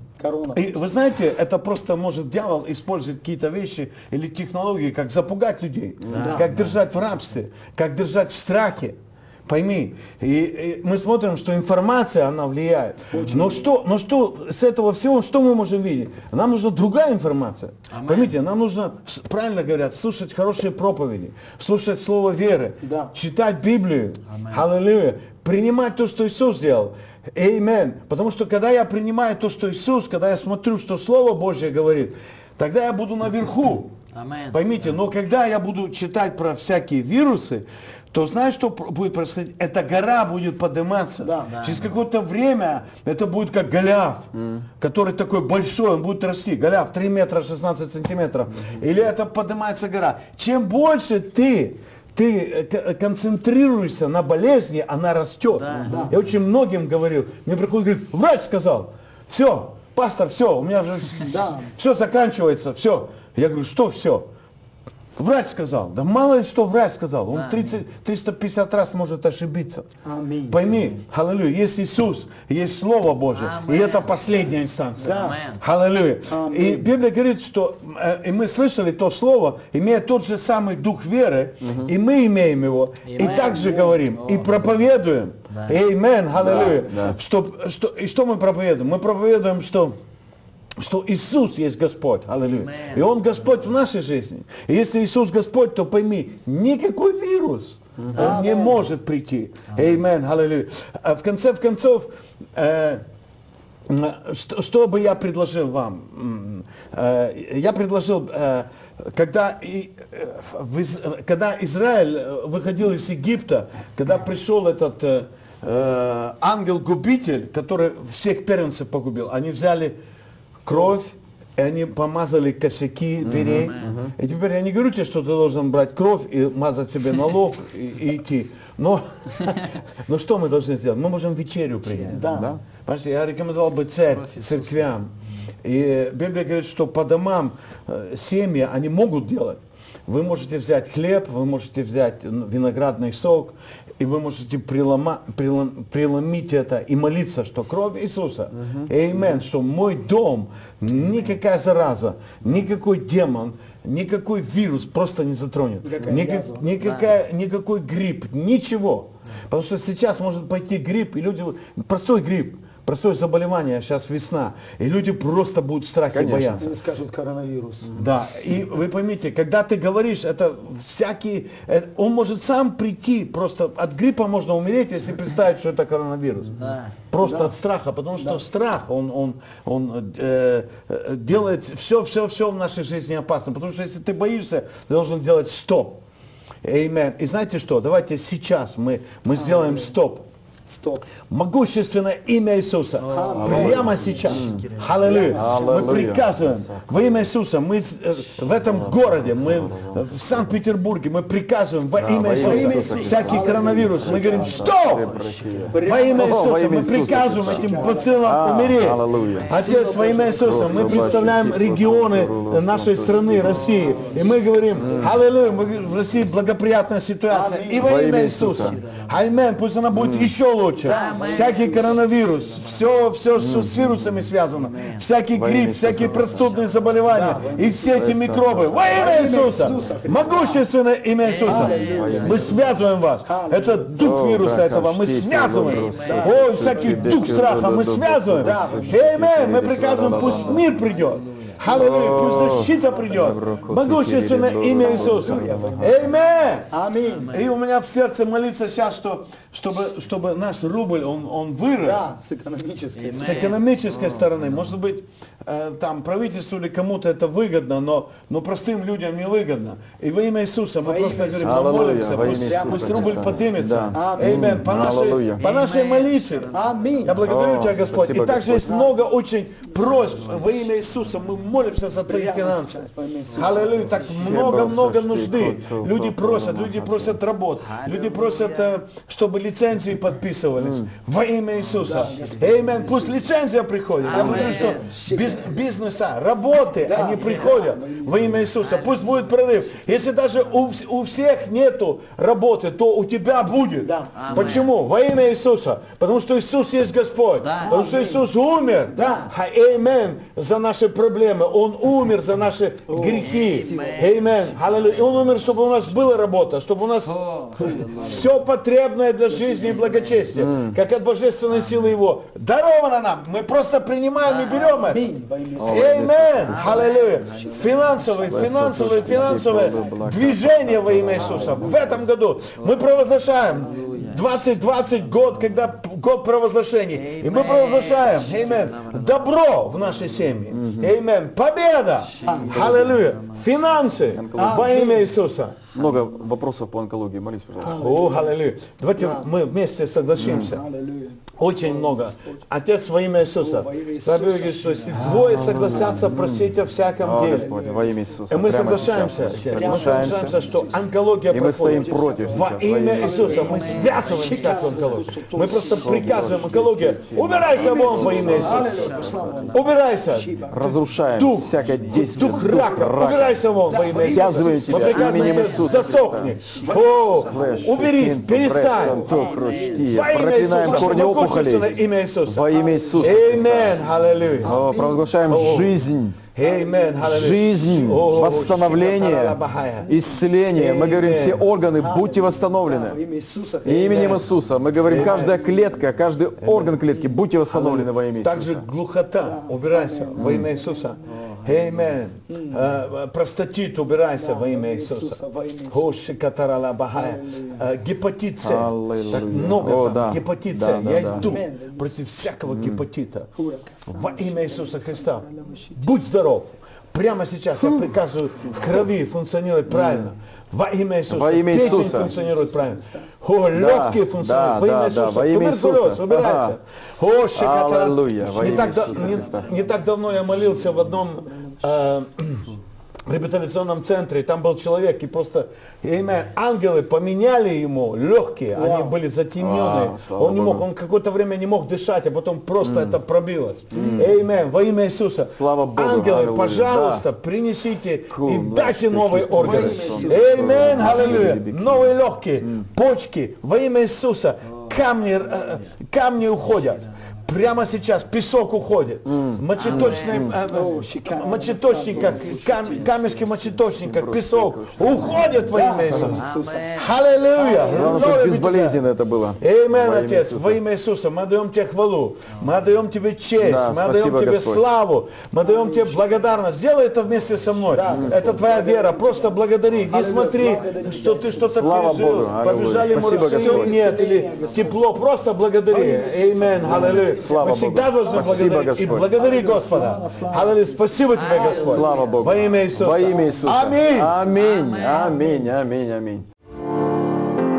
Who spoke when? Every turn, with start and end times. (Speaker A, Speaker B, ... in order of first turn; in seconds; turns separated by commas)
Speaker A: 0.2-0.7, Speaker B: 0.5-33.9, Speaker C: 6.1-7.2, Speaker A: 6.1-6.5, Speaker A: 13.1-13.7, Speaker C: 17.9-18.3, Speaker A: 22.8-23.1, Speaker C: 24.3-24.6, Speaker C: 34.1-34.9, Speaker B: 34.5-64.3, Speaker A: 41.2-41.5, Speaker C: 41.5-41.9, Speaker C: 55.5-56.1, Speaker A: 55.8-56.1, Speaker A: 61.2-61.7, Speaker B: 65.2-69.9, Speaker C: 67.3-67.8, Speaker A: 70.0-70.6, Speaker B: 70.5-90.0, Speaker C: 73.3-74.5, Speaker A: 75.0-75.3, Speaker C: 75.1-75.6, Speaker A: 76.2-76.9, Speaker C: 83.0-84.7, Speaker A: 83.3-84.0, Speaker C: 85.5-85.8, Speaker A: 86.4-86.9, Speaker D: 86.9-87.2, Speaker B: 90.8-103.0, Speaker C: 92.5-93.5, Speaker A: 98.1-98.9, Speaker C: 99.7-100.0, Speaker B: 103.9-120.0, Speaker B: 120.6-135.1, Speaker D: 123.2-124.0, Speaker C: 123.4-123.9, Speaker C: 131.9-132.2, Speaker A: 132.1-132.5, Speaker D: 132.2-132.6, Speaker C: 134.1-134.9, Speaker B: 135.6-166.7, Speaker A: 155.8-156.7, Speaker C: 156.8-157.1, Speaker D: 166.1-166.6, Speaker A: 166.6-167.9, Speaker B: 167.9-186.0, Speaker C: 176.6-176.9, Speaker A: 177.2-177.5, Speaker A: 178.2-178.4, Speaker B: 186.6-190.2, Speaker A: 189.3-189.9, Speaker A: 190.7-191.1, Speaker B: 191.3-205.2, Speaker C: 193.0-195.5, Speaker A: 193.0-194.5, Speaker D: 193.3-194.6, Speaker A: 195.0-195.8, Speaker D: 195.3-197.2, Speaker D: 198.6-200.5, Speaker D: 201.9-209.5, Speaker A: 202.3-204.8, Speaker C: 202.6-203.3, Speaker C: 203.9-205.7, Speaker A: 205.7-208.9, Speaker B: 205.7-246.7, Speaker C: 208.9-210.0, Speaker A: 209.4-211.5, Speaker D: 210.4-213.7, Speaker C: 213.3-216.4, Speaker A: 213.7-214.4, Speaker D: 214.7-215.2, Speaker A: 217.3-217.9, Speaker D: 217.8-218.8, Speaker C: 218.1-219.6, Speaker D: 219.9-220.3, Speaker A: 220.8-222.0, Speaker C: 220.8-223.1, Speaker D: 223.3-224.0, Speaker C: 223.7-225.1, Speaker D: 225.3-226.6, Speaker C: 225.9-227.6, Speaker A: 227.1-228.1, Speaker D: 227.8-229.4, Speaker A: 228.9-230.6, Speaker C: 231.2-232.9, Speaker D: 231.4-232.6, Speaker A: 231.4-232.1, Speaker A: 233.2-234.0, Speaker D: 233.9-240.7, Speaker C: 235.6-237.5, Speaker A: 236.0-237.2, Speaker A: 238.4-239.0, Speaker C: 240.0-241.8, Speaker D: 241.7-245.9, Speaker A: 241.8-243.5, Speaker A: 244.8-247.3, Speaker C: 247.0-247.5, Speaker B: 247.3-252.1, Speaker A: 251.8-253.6, Speaker C: 252.9-254.3, Speaker B: 253.2-266.5, Speaker A: 260.8-264.5, Speaker D: 261.4-265.5, Speaker C: 263.2-263.6, Speaker C: 265.3-268.6, Speaker A: 266.5-267.3, Speaker B: 267.0-335.6, Speaker D: 267.2-268.8, Speaker A: 268.5-269.1, Speaker A: 269.6-269.9, Speaker C: 269.8-271.4, Speaker A: 272.1-274.7, Speaker C: 273.3-274.1, Speaker D: 274.0-277.2, Speaker C: 277.6-278.8, Speaker D: 280.6-280.9, Speaker C: 281.6-282.7, Speaker A: 281.8-283.3, Speaker C: 284.0-284.9, Speaker A: 284.1-285.6, Speaker A: 286.8-288.5, Speaker C: 286.9-287.6, Speaker C: 288.5-290.5, Speaker A: 293.8-294.3, Speaker C: 294.1-294.7, Speaker C: 297.4-297.8, Speaker A: 297.6-298.3, Speaker A: 298.9-299.3, Speaker A: 302.9-303.9, Speaker C: 303.2-306.2, Speaker C: 307.0-308.4, Speaker C: 309.5-310.3, Speaker D: 310.4-310.8, Speaker C: 311.5-311.9, Speaker C: 314.2-315.1, Speaker A: 314.9-320.1, Speaker D: 315.6-316.7, Speaker C: 316.4-318.6, Speaker D: 318.2-321.5, Speaker A: 320.8-322.1, Speaker C: 321.0-322.0, Speaker C: 322.5-325.7, Speaker A: 323.5-324.2, Speaker C: 326.9-330.4, Speaker D: 330.5-330.9, Speaker C: 332.0-334.1, Speaker A: 332.2-332.7, Speaker D: 334.1-334.8, Speaker A: 334.3-335.1, Speaker D: 335.7-337.8, Speaker A: 337.6-338.4, Speaker B: 337.6-340.6, Speaker A: 338.9-339.3, Speaker D: 340.2-340.6, Speaker A: 340.2-342.4, Speaker B: 341.4-347.5, Speaker A: 343.4-346.1, Speaker D: 344.9-350.4, Speaker A: 347.0-350.8, Speaker B: 348.3-360.3, Speaker C: 349.7-350.7, Speaker D: 351.3-353.8, Speaker A: 351.6-365.7, Speaker C: 353.2-354.9, Speaker D: 355.4-359.3, Speaker C: 358.1-359.8, Speaker D: 360.5-366.4, Speaker B: 361.0-375.8, Speaker C: 361.5-362.4, Speaker C: 364.9-366.3, Speaker A: 366.4-367.9, Speaker D: 367.1-371.7, Speaker A: 368.6-369.8, Speaker C: 369.1-369.9, Speaker A: 370.6-371.9, Speaker D: 372.2-373.9, Speaker A: 372.4-375.7, Speaker D: 374.4-376.2, Speaker B: 376.3-381.4, Speaker A: 376.4-378.8, Speaker D: 377.0-383.0, Speaker A: 379.8-380.2, Speaker A: 381.7-386.1, Speaker D: 383.6-388.7, Speaker B: 383.7-384.2, Speaker B: 384.8-385.4, Speaker B: 386.4-386.8, Speaker A: 386.9-387.8, Speaker B: 388.1-403.3, Speaker A: 389.2-391.0, Speaker D: 390.2-390.5, Speaker C: 391.5-391.8, Speaker A: 392.3-392.8, Speaker A: 394.1-396.0, Speaker A: 396.9-397.6, Speaker D: 398.4-401.3, Speaker A: 401.1-402.0, Speaker D: 402.4-402.8, Speaker A: 403.3-405.9, Speaker B: 403.9-422.5, Speaker D: 407.6-407.9, Speaker D: 409.7-410.1, Speaker D: 411.1-412.1, Speaker A: 411.5-413.1, Speaker D: 413.5-416.6, Speaker D: 417.3-419.5, Speaker A: 418.4-421.8, Speaker B: 423.1-458.8, Speaker A: 428.5-428.9, Speaker D: 429.4-430.6, Speaker D: 432.6-433.0, Speaker D: 433.7-434.1, Speaker D: 435.3-437.1, Speaker D: 438.1-442.6, Speaker A: 439.2-441.3, Speaker C: 444.7-445.7, Speaker C: 446.3-446.9, Speaker D: 449.1-450.4, Speaker C: 449.5-450.6, Speaker A: 450.5-453.1, Speaker C: 451.9-453.7, Speaker D: 453.7-456.2, Speaker C: 454.9-457.0, Speaker A: 455.3-456.7, Speaker A: 457.3-458.2, Speaker D: 457.7-460.6, Speaker B: 459.3-484.2, Speaker D: 463.4-464.6, Speaker A: 465.4-466.2, Speaker A: 467.7-471.9, Speaker D: 467.9-468.4, Speaker D: 471.4-473.8, Speaker A: 473.0-475.0, Speaker C: 473.9-474.7, Speaker A: 475.7-481.5, Speaker D: 476.6-479.2, Speaker C: 481.1-483.2, Speaker D: 481.5-486.2, Speaker A: 482.8-483.7, Speaker C: 484.2-485.4